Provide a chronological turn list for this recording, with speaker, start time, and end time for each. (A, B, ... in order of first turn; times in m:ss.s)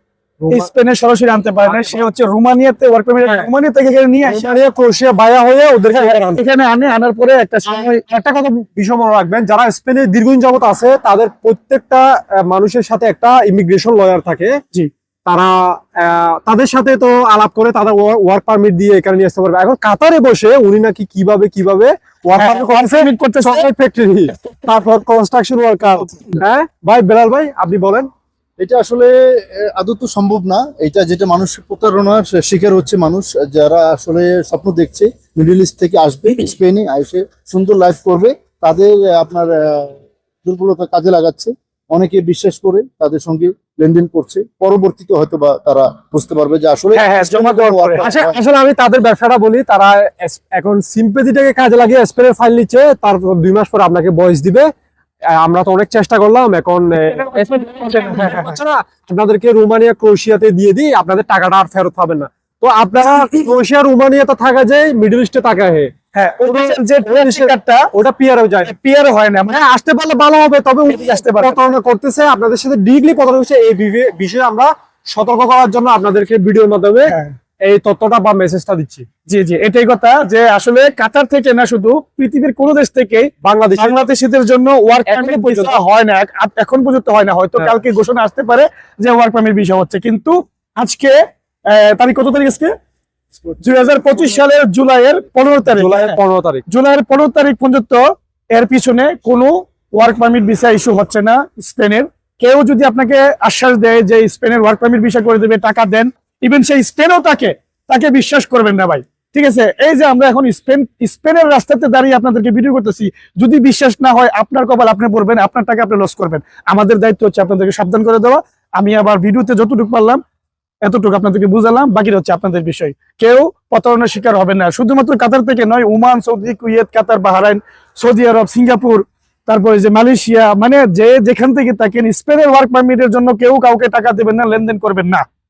0:00.4-0:00.7 A
0:00.5-0:04.5 B
0:01.6-0:02.0 A
0:03.2-0:03.5 A
0:04.3-0:06.4 A
0:06.0-0:08.0 B
0:07.7-0:14.6 A
0:15.3-0:28.1 A
0:22.4-0:23.7 B
0:25.9-0:26.3 B
0:28.6-0:48.3 C
0:46.9-0:48.1 B
0:48.0-0:54.7 A
0:55.3-1:08.7 A
0:57.0-0:58.6 B
1:06.1-1:07.9 B
1:08.6-1:09.6 B
1:09.5-1:19.1 A
1:10.8-1:11.6 B
1:17.1-1:17.3 B
1:19.3-1:31.1 B
1:23.4-1:24.0 A
1:25.0-1:25.8 A
1:31.7-1:32.7 B
1:33.6-1:38.0 B
1:35.7-1:36.6 A
1:38.5-2:00.2 B
2:00.8-2:15.2 B